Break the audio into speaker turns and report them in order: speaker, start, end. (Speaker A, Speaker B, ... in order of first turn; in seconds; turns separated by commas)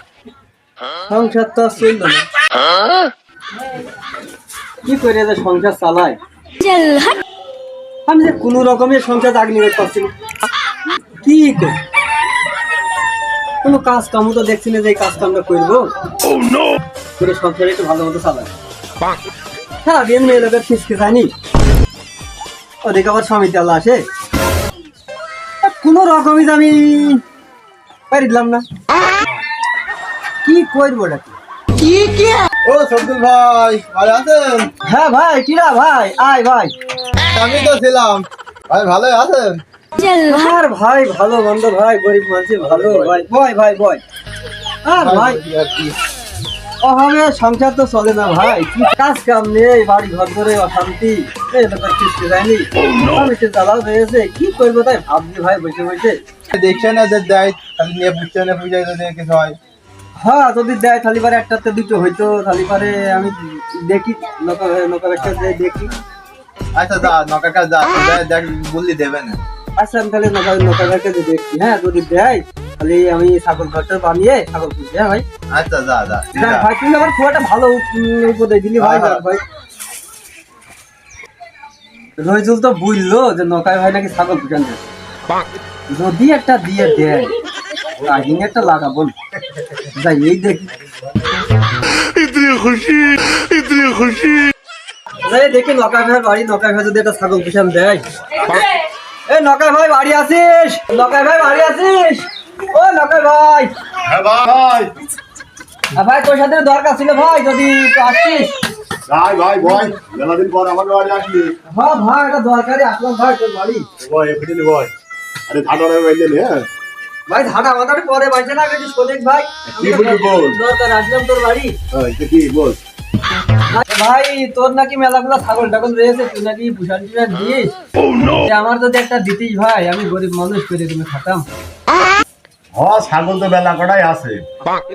Speaker A: 1.1-2.3, Speaker A: 4.8-6.2, Speaker A: 8.1-10.1, Speaker A: 11.2-11.8, Speaker A: 13.6-15.9, Speaker A: 17.2-18.5, Speaker A: 19.8-21.3, Speaker A: 22.8-24.1, Speaker A: 25.6-27.2, Speaker A: 28.1-28.6, Speaker A: 30.4-31.4, Speaker A: 31.9-32.4, Speaker B: 32.6-34.7, Speaker A: 34.8-36.7, Speaker B: 37.3-39.6, Speaker A: 40.0-44.0, Speaker B: 42.7-43.1, Speaker A: 44.8-45.4, Speaker B: 45.0-46.0, Speaker A: 46.8-56.2, Speaker B: 56.5-59.6, Speaker A: 60.2-66.0, Speaker B: 66.8-69.4, Speaker A: 69.8-75.2, Speaker B: 75.5-76.7, Speaker A: 76.3-79.4, Speaker B: 78.8-79.2, Speaker A: 82.2-84.8, Speaker A: 85.9-87.3, Speaker A: 88.0-89.1, Speaker A: 89.8-90.7, Speaker A: 95.2-98.7, Speaker A: 99.3-103.7, Speaker C: 104.0-105.0, Speaker A: 106.0-108.6, Speaker C: 109.1-111.6, Speaker A: 111.7-113.9, Speaker C: 114.0-114.9, Speaker C: 115.5-116.7, Speaker A: 117.3-121.8, Speaker C: 119.8-120.6, Speaker C: 121.9-122.8, Speaker A: 123.7-131.5, Speaker C: 132.7-134.4